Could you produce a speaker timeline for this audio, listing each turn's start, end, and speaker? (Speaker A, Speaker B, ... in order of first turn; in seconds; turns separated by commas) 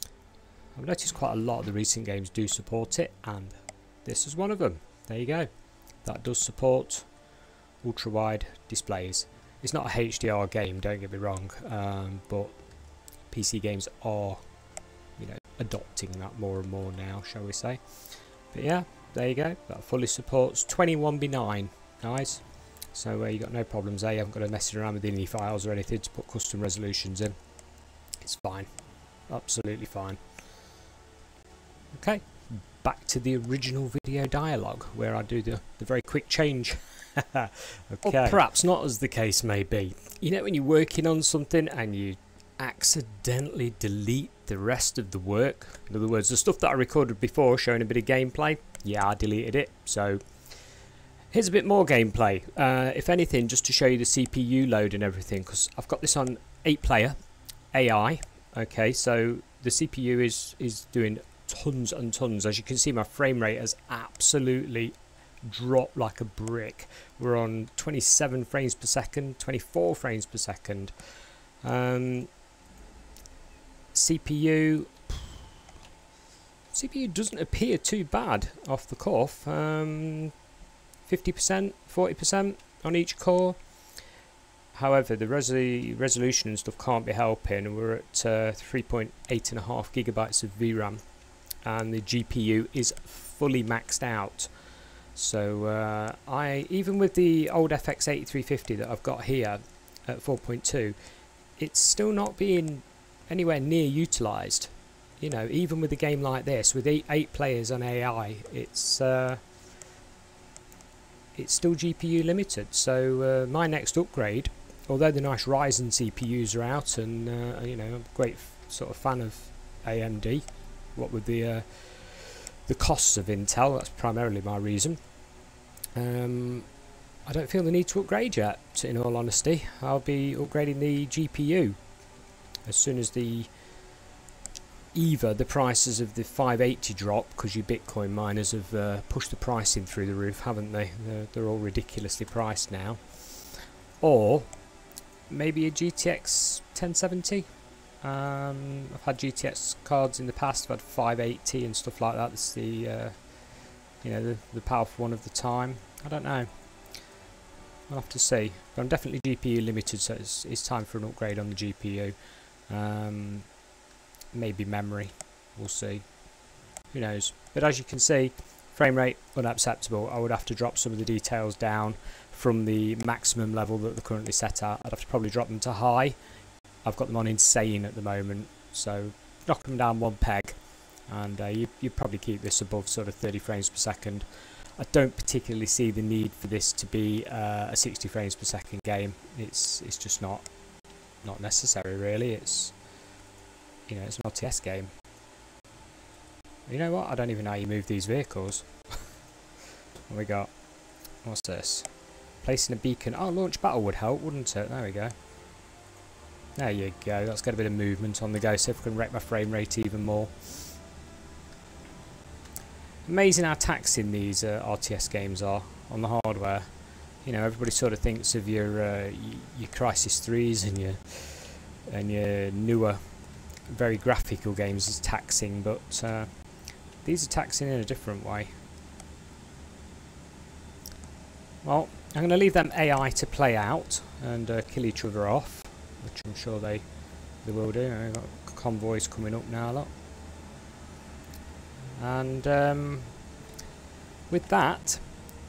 Speaker A: 0.8-5.5, Speaker A: 6.0-7.1, Speaker A: 7.8-12.6, Speaker A: 13.3-14.4, Speaker A: 15.2-27.4, Speaker A: 28.2-30.2, Speaker A: 31.9-50.5, Speaker A: 51.3-57.2, Speaker A: 57.7-72.3, Speaker A: 73.9-75.3, Speaker A: 76.7-80.3, Speaker A: 81.0-83.8, Speaker A: 84.7-91.1, Speaker A: 91.6-101.0, Speaker A: 101.6-109.5, Speaker A: 111.3-125.1, Speaker A: 125.9-126.7, Speaker A: 127.2-131.8, Speaker A: 132.7-133.6, Speaker A: 134.9-144.6, Speaker A: 145.3-147.5, Speaker A: 148.0-157.1, Speaker A: 157.9-162.2, Speaker A: 162.7-163.6, Speaker A: 164.3-166.2, Speaker A: 166.9-176.2, Speaker A: 176.8-190.5, Speaker A: 191.2-192.8, Speaker A: 193.9-194.9, Speaker A: 196.7-199.1, Speaker A: 200.1-200.5, Speaker A: 201.2-205.2, Speaker A: 206.6-210.8, Speaker A: 213.1-226.4, Speaker A: 227.0-228.6, Speaker A: 231.6-239.9, Speaker A: 242.0-243.2, Speaker A: 244.3-245.1